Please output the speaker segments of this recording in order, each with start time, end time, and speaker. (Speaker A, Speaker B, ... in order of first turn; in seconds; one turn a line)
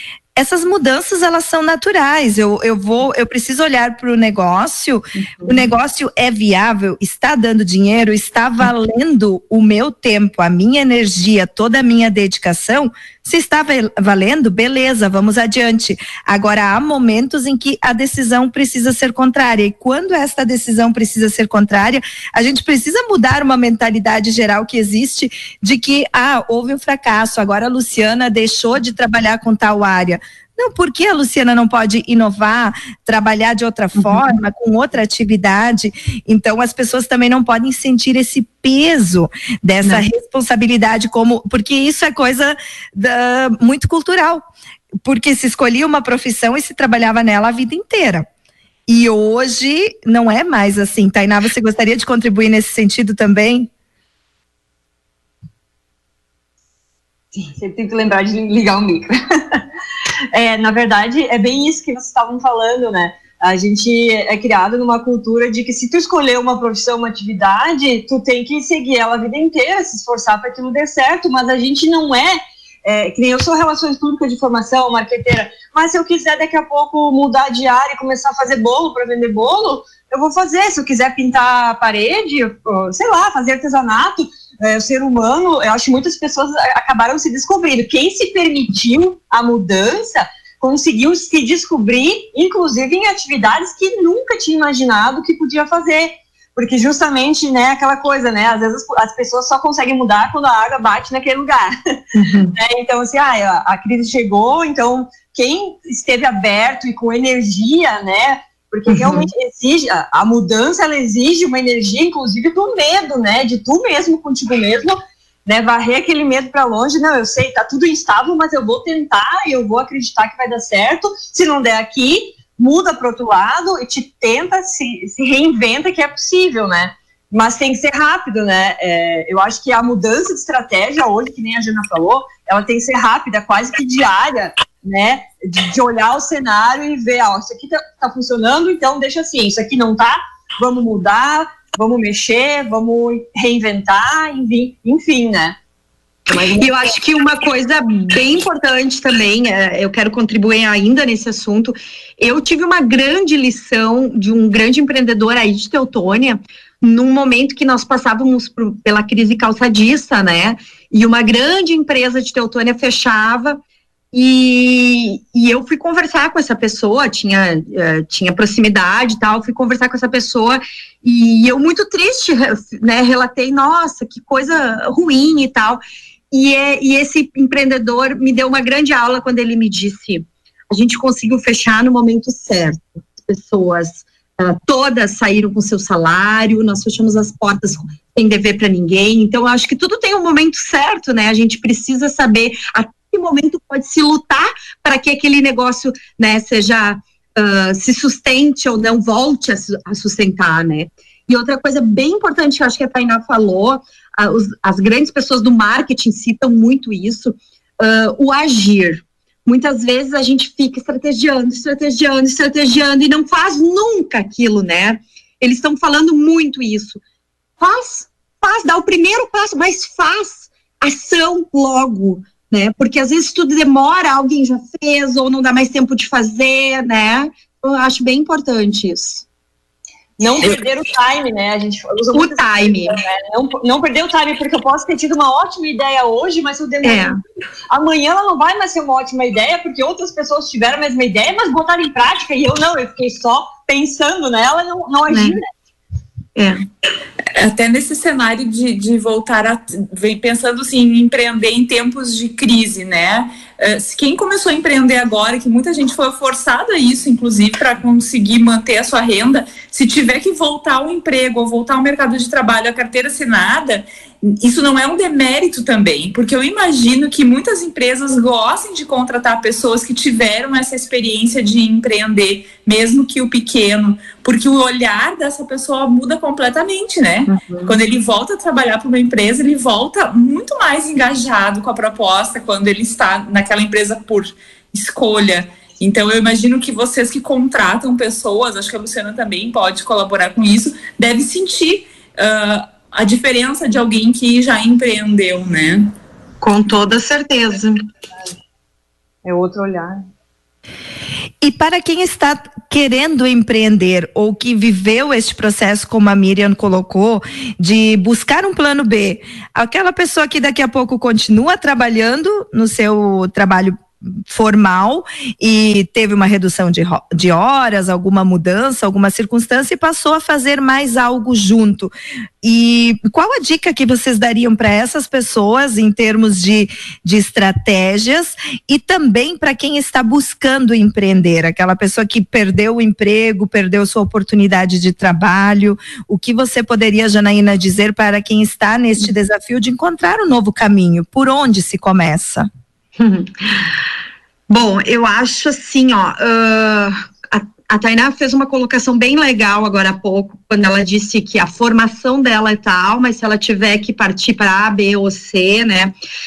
Speaker A: 0.3-44.4
Speaker B: 5.2-5.6
Speaker A: 45.0-48.2
Speaker A: 48.9-53.7
Speaker C: 57.3-59.6
Speaker C: 60.3-102.0
Speaker B: 102.1-102.5
Speaker C: 102.5-145.6
Speaker B: 108.9-109.3
Speaker C: 146.3-146.7
Speaker B: 146.6-163.6
Speaker B: 164.1-217.0
Speaker B: 217.6-229.2
Speaker C: 230.2-237.1
Speaker B: 232.1-232.9
Speaker B: 236.8-237.1
Speaker C: 237.7-245.5
Speaker B: 245.1-245.4
Speaker B: 246.3-246.7
Speaker D: 247.3-295.9
Speaker B: 277.3-277.7
Speaker B: 296.4-297.8
Speaker C: 299.2-300.0
Speaker A: 301.4-342.5
Speaker B: 343.0-343.7
Speaker B: 344.5-355.9